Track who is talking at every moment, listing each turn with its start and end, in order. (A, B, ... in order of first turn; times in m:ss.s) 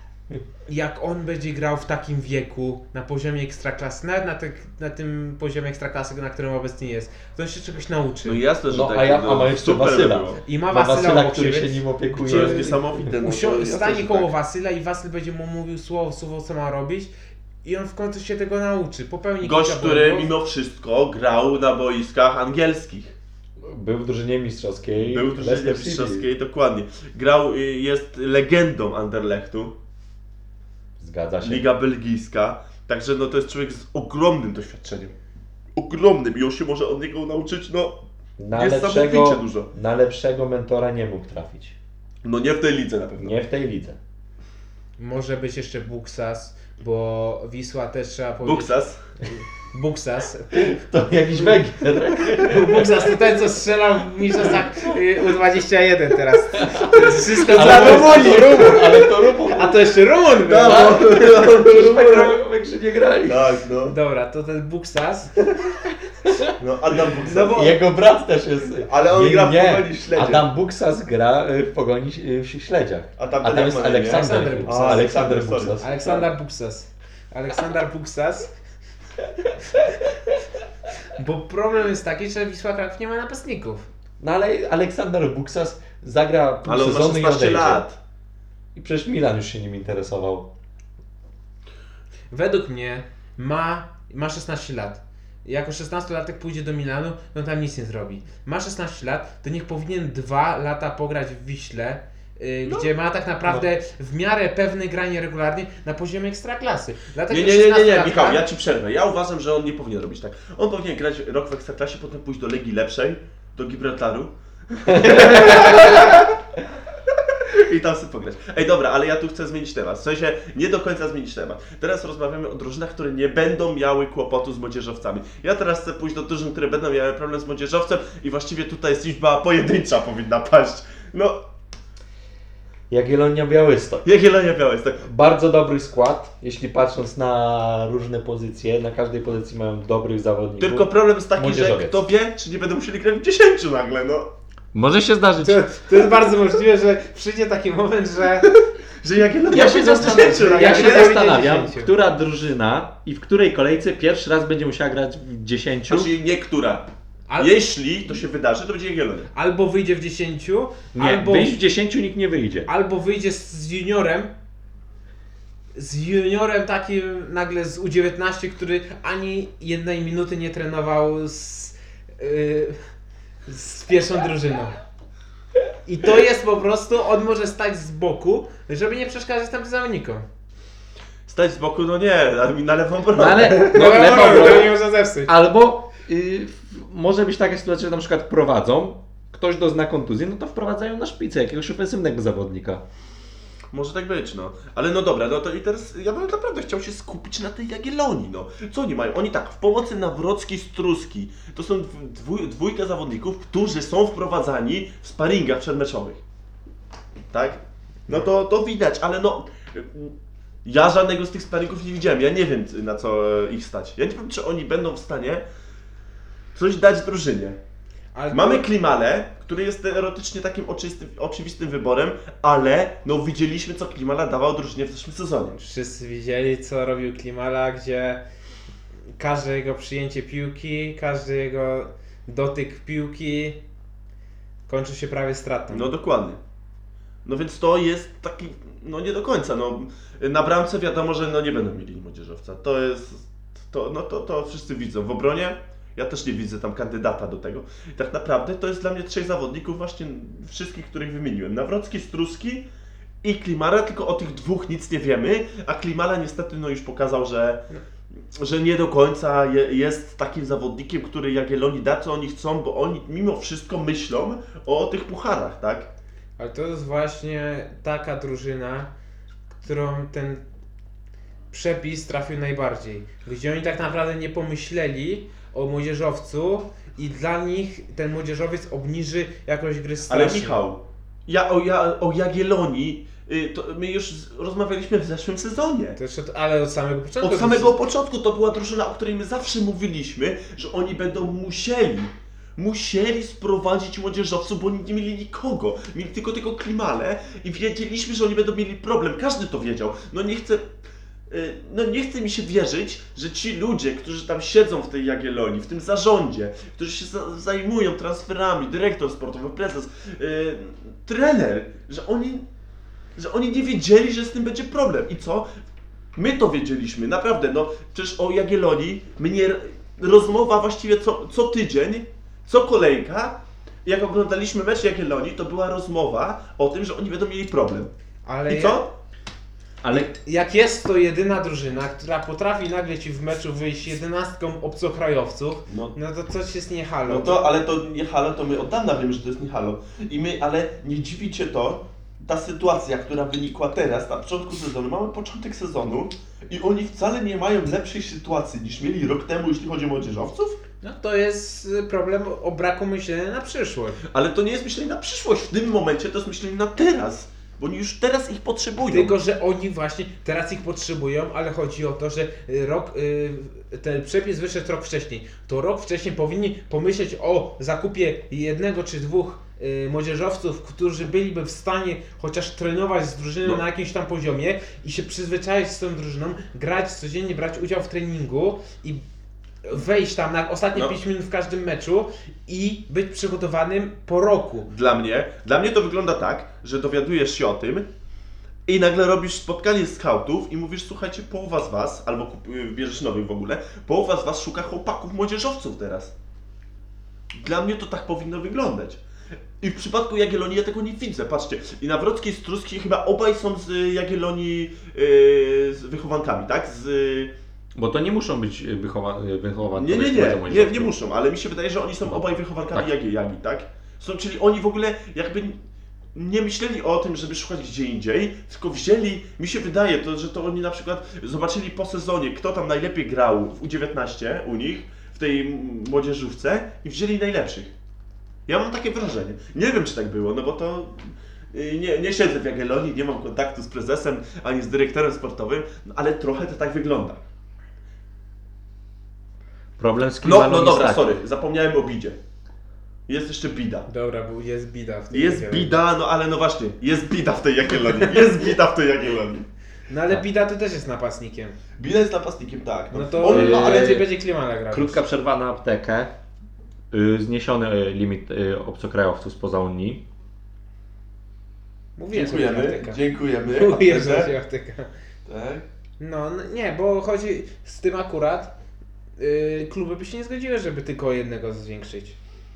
0:00.6-0:08.4 A
0:08.2-0:10.4 B
0:08.7-0:13.1 C
0:10.4-0:17.1 A
0:12.2-0:14.3 B
0:17.6-0:20.3 A
0:19.4-0:23.1 B
0:23.6-0:26.2 C
0:25.1-0:29.7 B
0:31.0-0:31.6 C
0:31.4-0:35.1 B
0:35.7-0:38.0 B
0:38.4-0:41.8 C
0:38.5-0:39.7 B
0:42.2-0:43.3 B
0:43.2-0:44.0 C
0:45.0-0:50.8 A
0:48.4-0:49.0 B
0:50.5-0:53.1 C
0:52.2-1:02.3 A
0:56.6-0:59.8 C
0:57.1-0:58.8 B
1:00.4-1:02.3 B
1:00.6-1:03.5 C
1:03.2-1:04.0 B
1:03.8-1:05.4 A
1:06.2-1:06.5 C
1:06.6-1:07.8 B
1:07.2-1:15.9 C
1:08.8-1:10.4 B
1:13.2-1:16.2 B
1:14.1-1:15.1 A
1:15.8-1:18.5 A
1:21.1-1:23.8 A
1:24.2-1:27.8 C
1:26.6-1:28.0 B
1:28.7-1:30.5 C
1:32.3-1:48.4 A
1:47.3-1:56.2 B
1:54.9-1:56.1 C
1:55.0-1:55.8 A
1:57.3-2:11.4 B
2:12.9-2:14.0 C
2:14.0-2:15.0 B
2:15.0-2:22.1 C
2:20.6-2:24.3 B
2:24.7-2:25.6 C
2:25.4-2:28.5 A
2:28.5-2:31.2 B
2:29.5-2:36.1 C
2:29.6-2:31.9 A
2:35.9-2:39.3 B
2:37.3-2:37.6 A
2:39.3-2:41.6 A
2:40.9-2:42.7 C
2:42.7-2:44.3 A
2:45.7-2:52.8 A
2:53.5-2:54.8 A
2:55.8-3:00.2 A
3:01.3-3:04.7 B
3:03.1-3:12.8 C
3:03.7-3:05.3 A
3:13.7-3:26.2 B
3:27.3-3:30.1 B
3:30.6-3:35.4 B
3:36.5-3:37.6 B
3:38.1-3:38.6 A
3:38.3-3:45.6 B
3:45.5-3:48.2 A
3:49.2-3:53.6 A
3:54.7-3:55.9 A
3:55.7-3:56.4 B
3:57.2-4:12.6 B
4:13.2-4:17.6 B
4:18.3-4:25.9 B
4:26.4-4:28.9 A
4:29.6-4:30.4 A
4:31.5-4:40.6 A
4:40.1-4:46.0 B
4:46.0-4:47.7 A
4:47.2-5:00.7 B
5:01.3-5:12.4 B
5:13.2-5:15.5 B
5:16.2-5:27.9 B
5:28.2-5:28.8 A
5:28.5-5:28.9 B
5:29.8-5:30.1 C
5:30.2-5:37.4 A
5:35.7-5:35.9 B
5:37.1-5:50.6 B
5:50.8-5:54.0 A
5:54.1-5:59.2 B
5:58.8-6:19.0 A
6:19.6-6:24.7 A
6:24.7-6:27.8 B
6:28.6-6:36.1 B
6:37.3-6:39.0 B
6:39.6-6:47.3 B
6:47.7-6:50.9 C
6:49.7-6:55.6 B
6:52.0-6:52.9 C
6:56.1-7:07.7 B
7:08.5-7:17.2 B
7:19.8-7:21.1 C
7:20.2-7:22.2 B
7:23.1-7:23.9 B
7:23.9-7:25.7 A
7:25.1-7:29.5 B
7:29.9-7:31.6 A
7:31.8-7:34.0 B
7:32.9-7:35.0 A
7:33.2-7:34.0 C
7:34.7-7:36.1 C
7:36.9-7:40.0 C
7:42.0-7:44.9 A
7:42.1-7:44.3 B
7:45.2-7:45.6 B
7:46.0-7:48.5 A
7:49.2-7:52.2 A